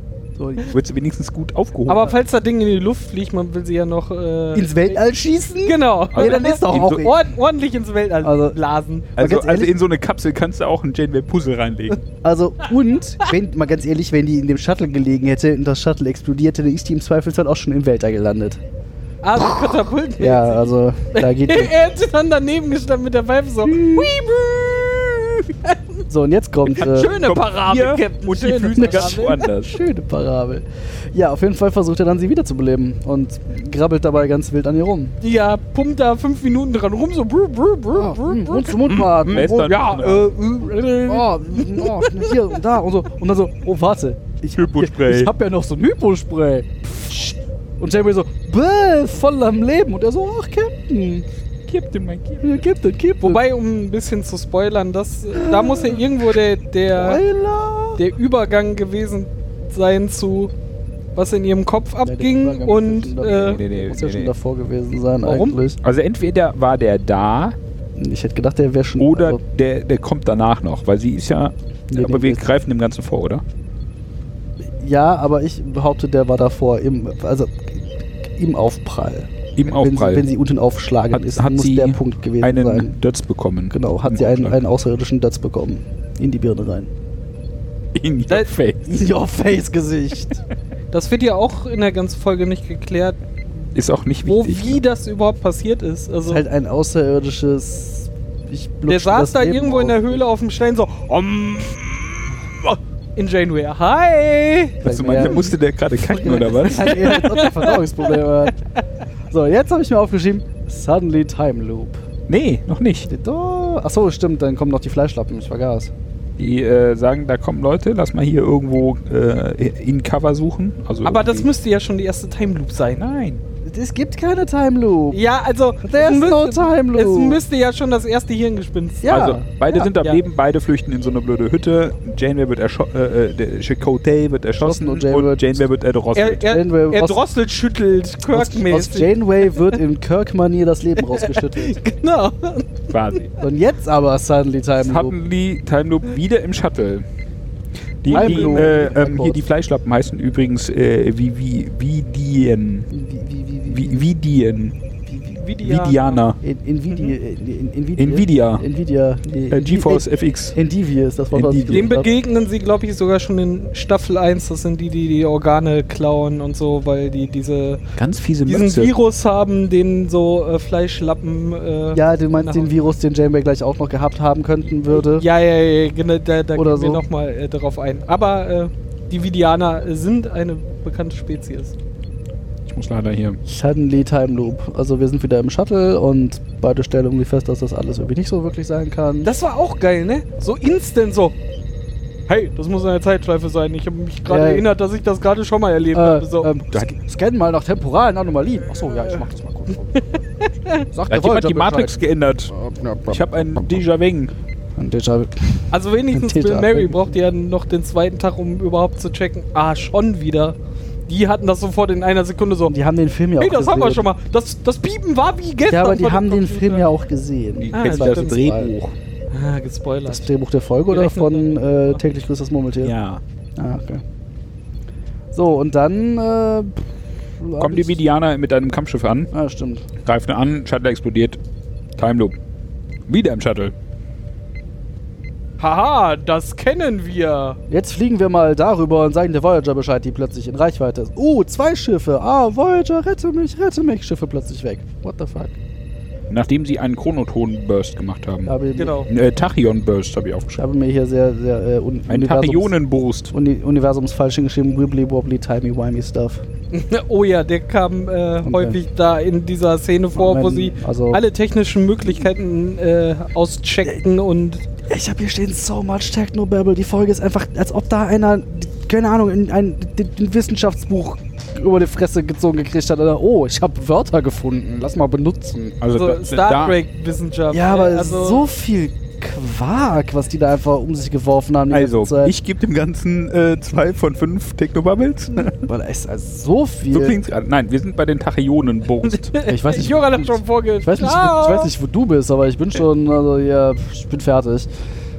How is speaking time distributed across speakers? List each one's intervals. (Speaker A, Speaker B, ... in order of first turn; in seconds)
Speaker A: 0.3-0.8, 4.5-7.2, 8.2-8.6, 9.2-9.7, 12.2-18.6, 19.4-21.8, 23.7-24.4, 26.1-27.1, 28.8-35.1, 37.9-51.3, 52.4-53.4, 55.3-56.0, 56.9-58.0, 62.0-65.8, 68.0-69.4, 71.9-72.5, 74.6-83.0, 83.7-86.9, 88.8-90.4, 96.3-100.2, 104.8-108.6, 109.3-112.0, 113.1-115.9, 123.7-125.2, 125.8-127.4, 129.0-129.5, 134.6-135.7, 136.5-137.2, 138.3-141.8, 143.4-145.2, 148.1-149.5, 152.9-154.1, 155.1-155.4, 156.4-162.1, 171.9-175.3, 176.6-177.1, 183.4-189.3, 194.3-194.7, 195.9-200.1, 200.9-203.8, 204.8-207.1, 212.7-214.1, 215.7-218.7, 220.1-222.9, 223.6-224.0, 225.3-228.0, 229.3-229.8, 237.7-245.6, 248.5-249.0, 250.6-252.8, 253.3-256.4, 258.4-258.8, 260.1-261.2, 264.9-275.8, 277.5-282.3, 285.5-287.2, 289.4-294.7
Speaker B: 0.7-2.1, 6.1-7.1, 9.2-12.0, 26.8-29.8, 39.0-40.3, 44.5-45.3, 51.7-52.6, 63.5-64.3, 65.8-67.6, 69.0-73.4, 79.6-80.3, 81.1-84.6, 87.9-89.0, 93.8-94.8, 104.8-107.3, 112.3-113.1, 116.4-121.5, 123.0-123.4, 129.1-136.5, 142.9-143.3, 144.8-147.1, 148.0-152.9, 153.7-154.8, 155.6-156.4, 158.0-158.6, 159.5-160.6, 161.3-161.9, 168.0-168.9, 182.7-183.4, 201.1-202.5, 203.1-204.3, 217.6-218.9, 222.8-223.2, 227.6-229.3, 230.0-231.4, 232.0-232.3, 233.1-233.7, 246.3-248.5, 249.1-250.6, 252.1-253.3, 275.8-276.8, 281.7-285.6, 286.9-289.4
Speaker C: 1.9-5.0, 5.6-9.1, 19.2-26.0, 26.7-29.5, 35.2-42.4, 53.2-57.2, 58.0-60.5, 61.2-63.6, 65.2-65.6, 90.9-93.2, 94.3-96.5, 98.9-104.8, 106.9-108.1, 121.0-123.0, 125.1-129.2, 129.7-130.2, 136.2-139.2, 141.1-143.2, 148.1-148.9, 155.3-156.2, 161.7-167.8, 168.4-172.8, 174.9-181.8, 189.2-191.4, 192.3-196.5, 200.2-200.9, 205.7-210.6, 211.1-212.8, 213.4-216.8, 217.7-218.4, 219.3-220.3, 220.9-222.0, 235.6-237.6, 248.8-249.1, 256.7-264.6, 275.9-278.5, 289.3-291.7